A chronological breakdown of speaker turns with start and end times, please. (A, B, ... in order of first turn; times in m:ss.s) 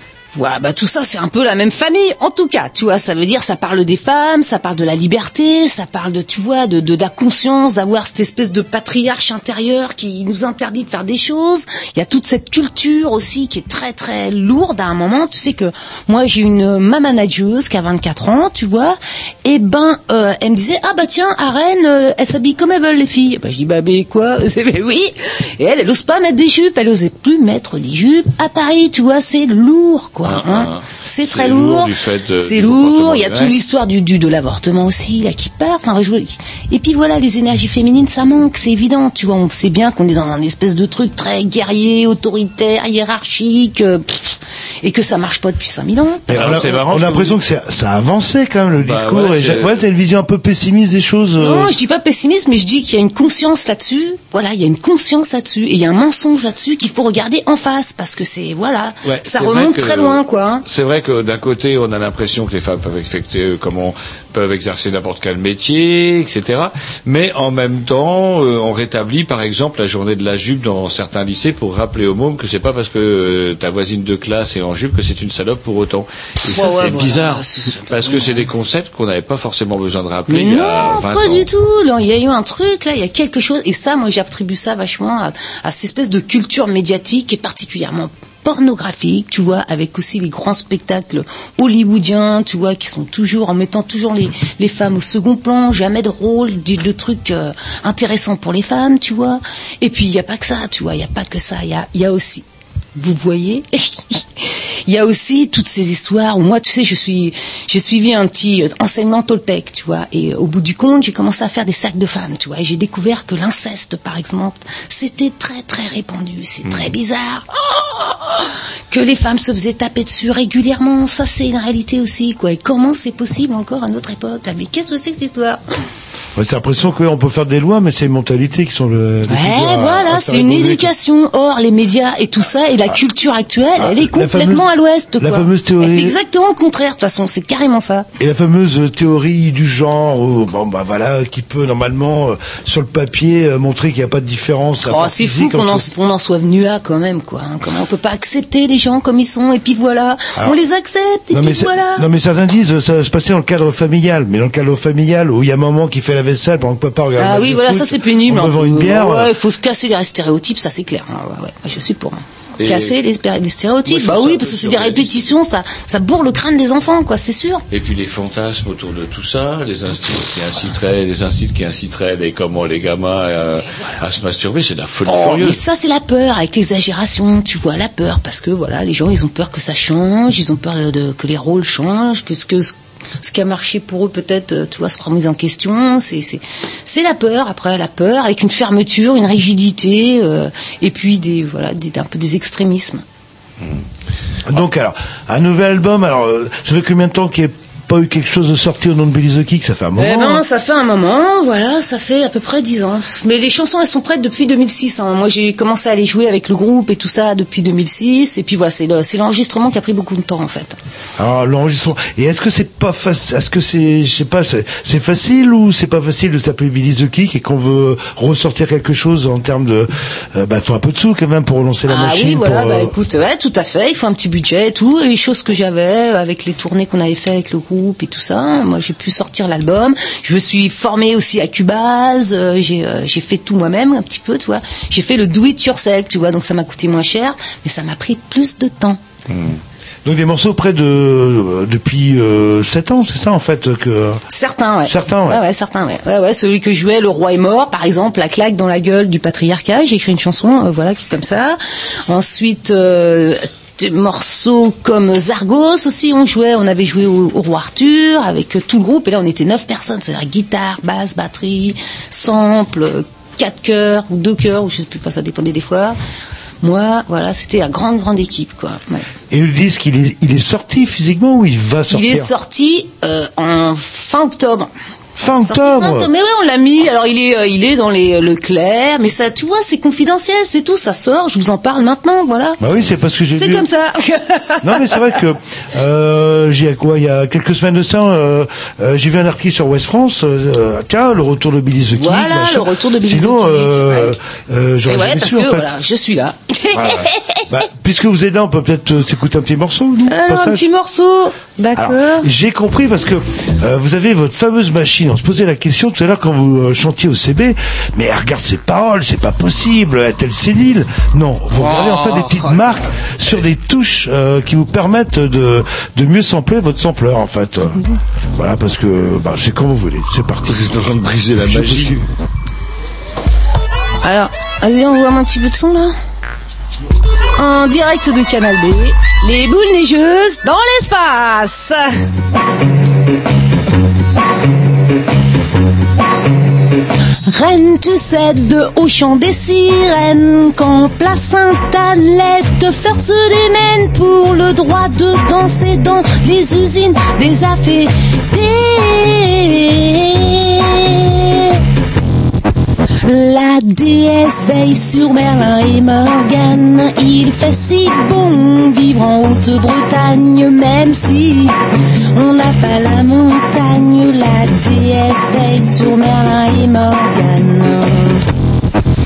0:00.3-0:46.6 A
0:30.2-0:33.6 B
0:46.3-0:51.7 C
0:46.3-0:47.4 B
0:48.8-0:49.8 B
0:51.4-1:00.6 A
0:59.0-1:21.5 B
1:16.4-1:18.5 A
1:20.3-1:42.4 A
1:43.0-2:05.6 A
2:06.4-2:10.9 C
2:09.3-2:18.1 A
2:13.8-2:16.2 C
2:18.2-2:25.9 C
2:24.8-2:32.0 A
2:31.3-2:39.3 C
2:37.2-2:47.6 A
2:42.6-2:43.0 B
2:43.9-2:45.3 B
2:47.7-2:55.6 B
2:55.1-3:13.0 A
3:14.5-3:20.4 C
3:20.0-3:30.8 A
3:31.2-3:43.0 C
3:41.9-3:59.0 A
3:59.3-3:59.6 B
4:00.0-4:04.2 C
4:04.3-4:26.0 A
4:04.9-4:05.4 C
4:26.6-4:29.1 A
4:29.3-4:32.3 C
4:31.9-4:34.7 A
4:35.2-4:36.1 C
4:35.2-4:42.6 A
4:42.6-4:43.7 C
4:43.3-4:45.0 A
4:44.6-4:55.7 C
4:51.9-4:54.2 A
4:54.9-4:57.4 A
4:56.7-5:00.7 C
5:00.1-5:02.3 A
5:01.8-5:17.8 C
5:11.6-5:12.2 B
5:18.4-5:22.0 C
5:20.5-5:22.0 B
5:24.0-5:26.0 A
5:27.4-5:31.9 A
5:37.3-5:51.6 A
5:53.0-6:01.6 A
6:02.1-6:08.3 A